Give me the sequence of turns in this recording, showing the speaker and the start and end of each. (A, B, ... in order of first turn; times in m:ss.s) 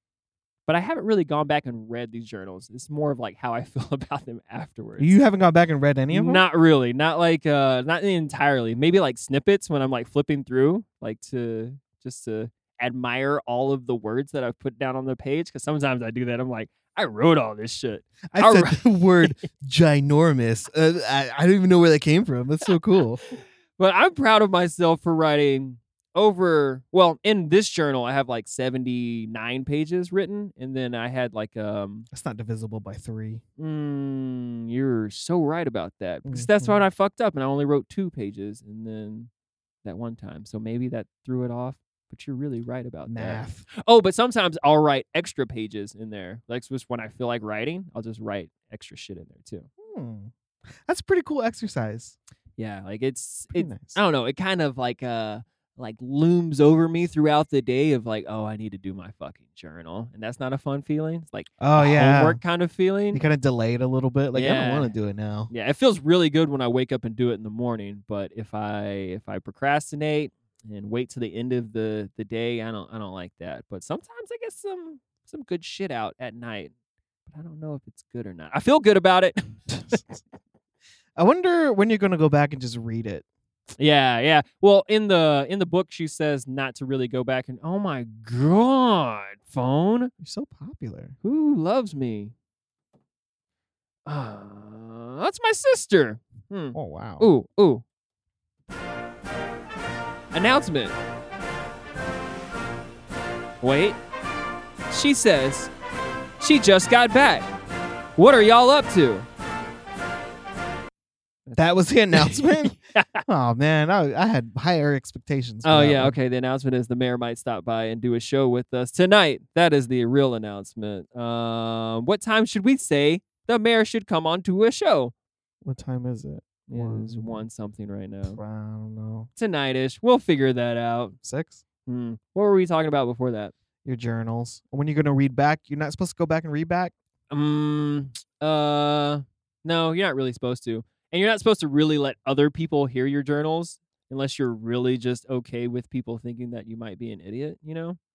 0:00.7-0:05.2 A
0:05.0-0:06.4 B
0:06.1-0:19.4 A
0:18.3-0:23.2 B
0:23.8-0:32.1 A
0:32.1-0:33.4 B
0:33.6-0:39.3 A
0:36.2-0:36.8 B
0:39.8-0:49.7 A
0:43.1-0:43.7 B
0:49.8-0:50.3 B
0:50.8-0:52.2 B
0:52.6-1:03.2 A
0:53.5-0:54.0 B
1:01.6-1:02.4 B
1:03.1-1:05.5 B
1:04.3-1:04.9 A
1:05.5-1:16.7 A
1:17.3-1:19.6 A
1:19.7-1:20.2 B
1:21.2-1:23.2 B
1:23.8-1:30.1 A
1:30.2-1:31.2 B
1:31.2-1:32.3 A
1:34.1-1:37.8 A
1:36.7-1:37.3 B
1:40.3-1:41.0 A
1:43.6-1:44.0 A
1:44.9-1:45.7 A
1:46.4-1:47.5 A
1:48.2-1:49.3 A
1:51.5-1:53.2 A
1:51.6-1:56.2 B
1:55.6-2:05.1 A
2:05.6-2:07.5 B
2:06.7-2:08.4 A
2:08.3-2:09.3 B
2:09.4-2:11.2 A
2:11.2-2:11.6 B
2:11.9-2:13.5 A
2:13.8-2:16.9 B
2:17.3-2:28.0 A